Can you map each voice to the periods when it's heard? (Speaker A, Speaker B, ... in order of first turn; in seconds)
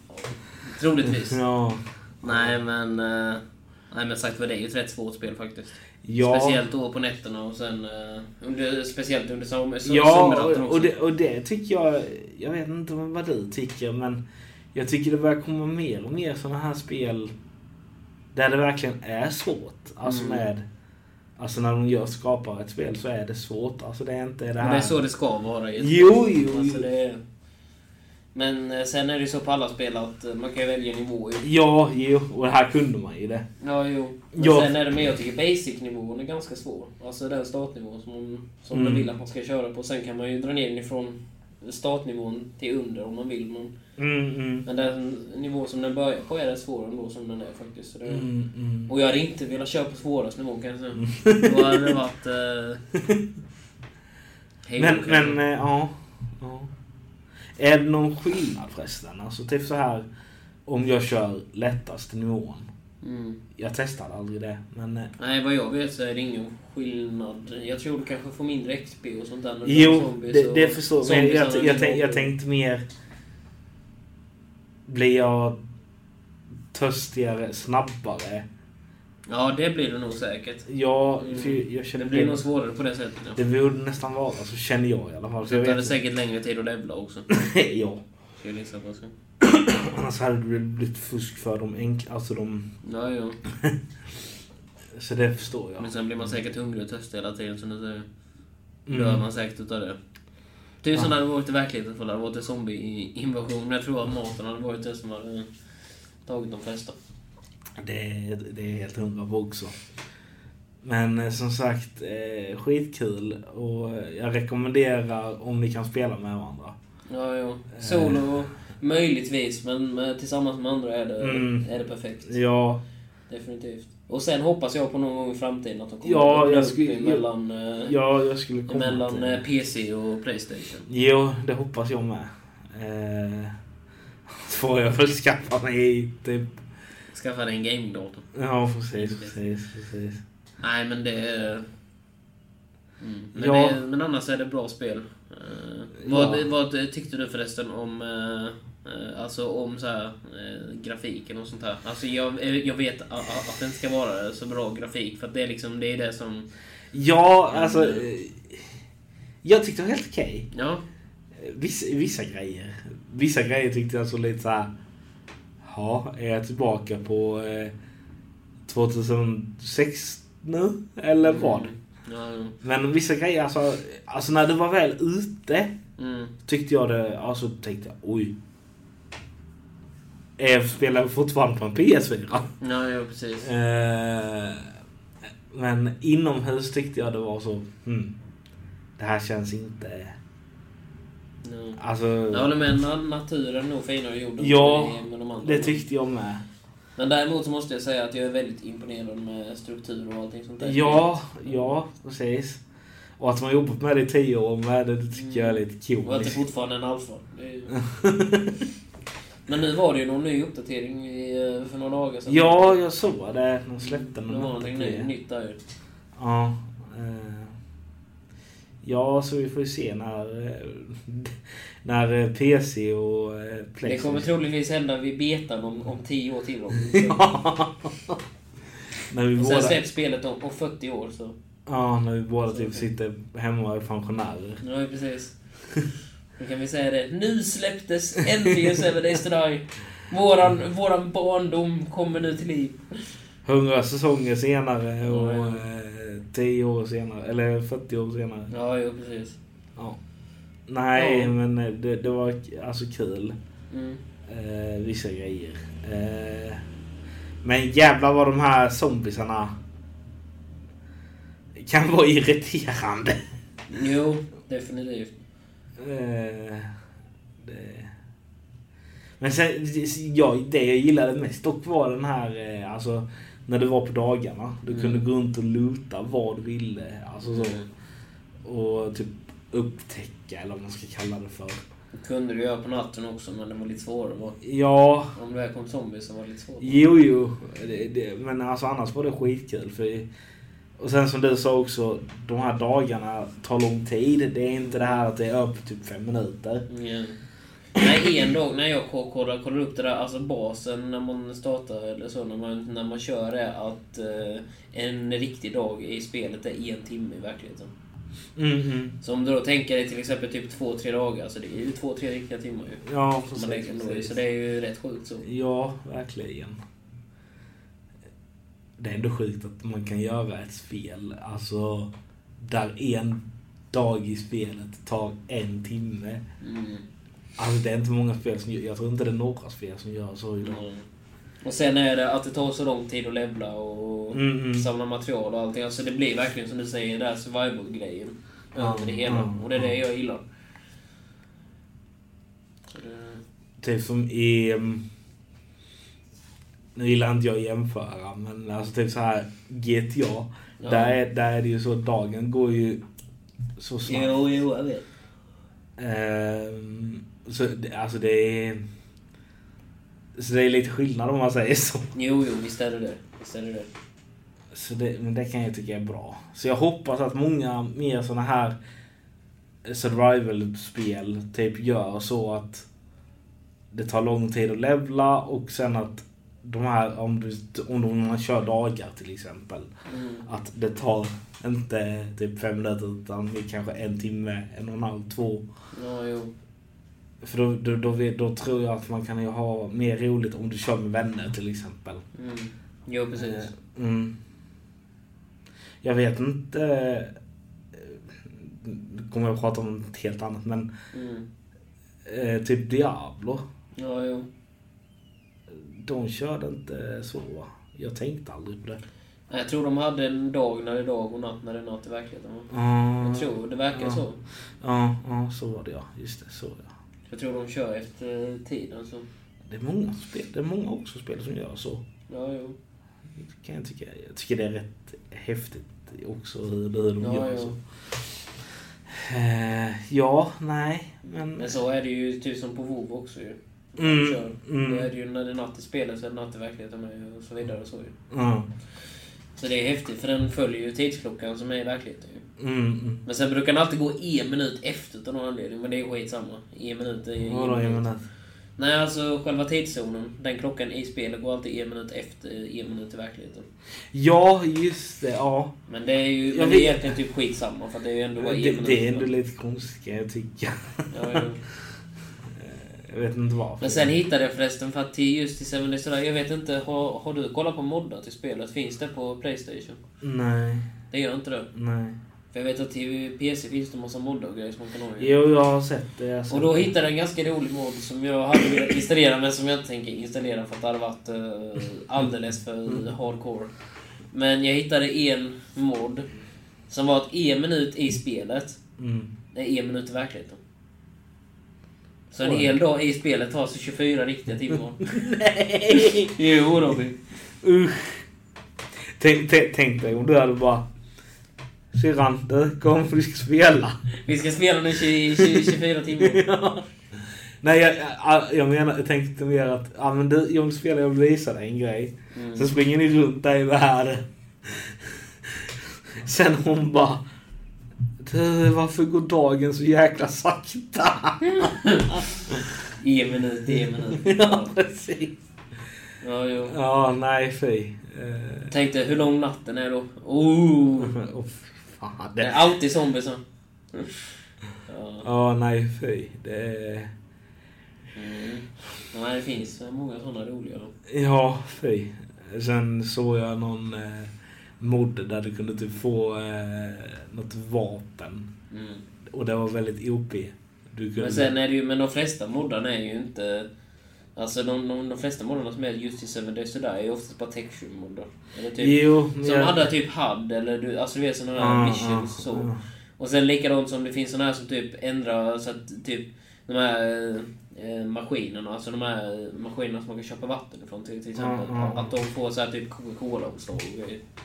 Speaker A: 0.1-1.4, 2.2-10.9, 20.0-20.5, 24.6-27.2, 28.3-31.5, 33.6-43.8, 44.6-48.3, 48.9-52.8, 54.7-55.4, 63.0-63.4, 65.2-72.3, 79.3-80.7, 81.2-83.4, 85.4-87.3, 88.4-89.1, 92.8-93.4, 95.8-98.1, 98.9-100.0, 100.8-105.5, 106.3-107.0, 117.1-122.4, 123.3-128.0, 128.7-130.9, 137.1-138.3, 138.9-139.4, 140.6-141.7, 143.0-156.5, 157.5-158.1, 160.5-160.8, 171.2-172.6, 176.0-176.3, 182.6-183.5, 191.4-195.8, 197.0-201.7, 205.1-207.8, 209.5-212.8, 213.8-215.6, 223.8-227.3, 229.4-231.3, 232.5-232.9, 234.6-235.4, 236.4-242.8, 245.1-245.6, 248.5-249.4, 250.9-251.3, 253.7-254.0, 263.7-265.1, 274.7-275.1, 277.3-277.7, 281.9-284.4, 285.1-286.9, 294.6-295.1, 296.7-297.2, 297.8-307.7, 309.0-315.2, 326.4-326.9, 330.4-330.9, 331.4-340.2, 342.7-343.2, 350.6-351.0, 353.9-354.9, 361.9-363.7, 379.9-380.3, 385.7-386.3, 392.1-393.5, 400.9-401.3, 403.8-404.3, 409.3-412.5, 413.0-414.2, 417.1-419.1, 422.1-422.6, 427.0-427.6, 431.4-437.9, 439.4-442.2, 443.1-447.9, 448.6-453.5, 455.7-459.1, 460.9-461.4, 463.6-469.8, 470.9-471.5, 472.3-475.1, 476.3-483.5, 484.1-486.1, 486.7-488.6, 489.3-490.4, 492.1-494.9, 495.7-497.0, 504.0-506.2, 512.1-512.5, 521.2-522.0, 522.8-524.5, 526.0-526.6, 528.5-531.0, 532.2-533.2, 533.7-534.1, 534.7-535.1, 538.0-540.7, 548.5-548.8, 551.0-553.5, 554.2-574.0
Speaker B: 1.1-2.6, 6.0-6.6, 9.8-14.2, 14.7-17.3, 18.3-20.6, 21.4-25.0, 25.8-26.9, 31.4-33.5, 34.3-34.7, 38.7-39.1, 44.0-44.6, 48.1-48.9, 51.0-52.0, 54.8-56.7, 57.6-60.1, 60.7-62.7, 63.6-65.1, 69.7-72.8, 74.9-75.6, 76.7-78.5, 80.7-82.4, 83.4-85.9, 87.3-88.0, 89.4-92.7, 93.5-93.8, 94.9-95.9, 98.9-99.2, 107.8-109.8, 110.8-116.8, 117.8-118.3, 121.2-121.7, 122.3-122.8, 126.0-127.2, 127.8-129.4, 130.9-133.6, 134.3-136.5, 138.3-140.2, 143.3-143.8, 146.0-146.4, 156.9-158.6, 159.4-160.5, 161.4-164.7, 165.6-167.7, 168.7-171.7, 172.6-175.8, 176.5-178.3, 180.4-182.5, 183.4-184.7, 185.5-188.1, 189.0-190.2, 191.8-192.5, 194.4-196.4, 200.6-202.6, 203.2-206.4, 207.7-208.7, 212.3-215.1, 216.2-217.6, 218.8-224.3, 226.8-228.2, 229.1-229.8, 231.7-234.6, 243.4-248.5, 250.7-253.4, 254.3-256.6, 257.4-259.6, 261.6-263.2, 265.8-266.7, 267.4-267.9, 269.2-277.6, 278.4-281.6, 284.4-285.1, 286.6-290.1, 290.8-296.6, 297.8-298.1, 308.4-309.0, 312.9-314.2, 315.2-316.6, 318.8-326.2, 327.4-330.6, 334.1-334.7, 338.6-339.8, 343.6-344.8, 346.8-352.8, 353.6-354.2, 355.8-358.6, 360.2-361.9, 364.5-368.6, 369.6-372.7, 373.7-379.7, 380.3-385.4, 387.2-392.0, 393.2-394.2, 395.8-397.1, 397.7-400.7, 402.1-403.4, 405.5-408.8, 412.5-414.0, 414.6-416.7, 419.4-421.8, 423.2-427.6, 428.9-431.5, 433.8-434.9, 438.1-438.5, 442.4-443.0, 447.2-448.0, 453.9-455.5, 456.3-457.0, 458.2-461.3, 462.3-463.9, 470.0-470.7, 471.5-472.0, 475.0-476.7, 488.8-489.1, 492.2-492.6, 494.8-496.2, 497.4-498.1, 499.0-500.7, 501.7-503.8, 505.1-517.0, 518.0-522.5, 523.5-525.2, 526.5-528.5, 530.8-532.4, 535.0-536.9, 540.9-548.3, 549.1-551.3, 558.6-559.7, 561.4-562.6, 571.2-571.9